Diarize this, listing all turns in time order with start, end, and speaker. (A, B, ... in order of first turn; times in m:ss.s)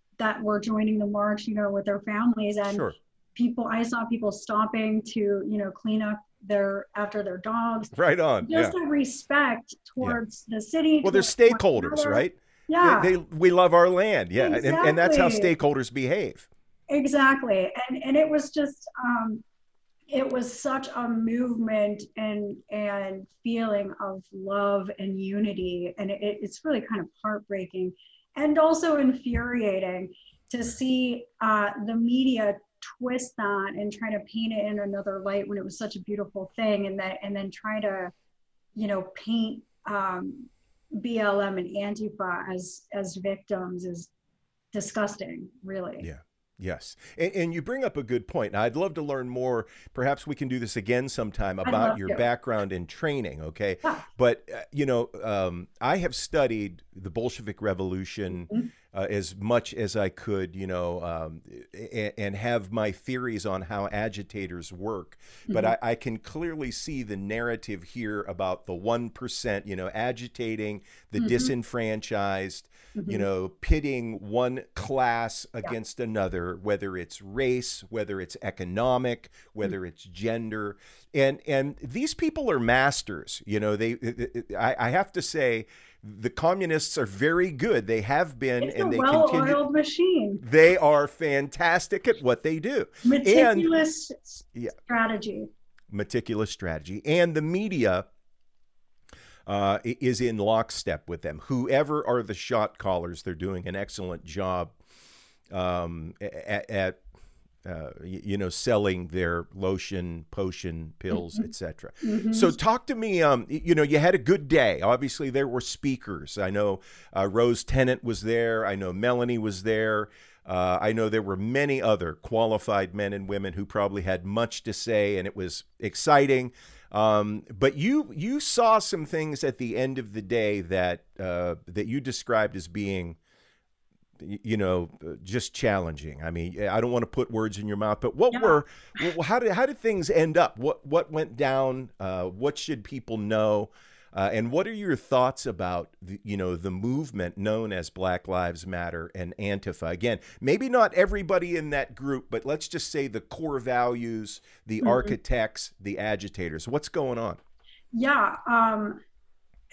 0:00.2-0:13.1 A
0:02.7-0:02.9 B
0:07.9-0:08.7 B
0:11.0-0:16.5 B
0:14.4-0:15.5 A
0:16.9-0:19.4 A
0:20.1-0:38.1 A
0:38.7-0:44.1 A
0:44.7-0:46.1 A
0:46.0-1:29.6 B
0:51.6-0:52.2 A
1:05.5-1:05.7 A
1:11.2-1:11.5 A
1:12.9-1:13.2 A
1:28.6-1:30.4 A
1:30.4-1:33.7 B
1:33.0-1:35.5 A
1:35.9-1:38.0 B
1:39.4-1:44.8 B
1:45.5-1:47.0 B
1:47.6-2:13.2 B
1:51.1-1:51.5 A
1:52.0-1:52.6 A
2:14.2-2:37.4 B
2:18.3-2:19.0 A
2:34.8-2:35.1 A
2:37.9-2:39.0 A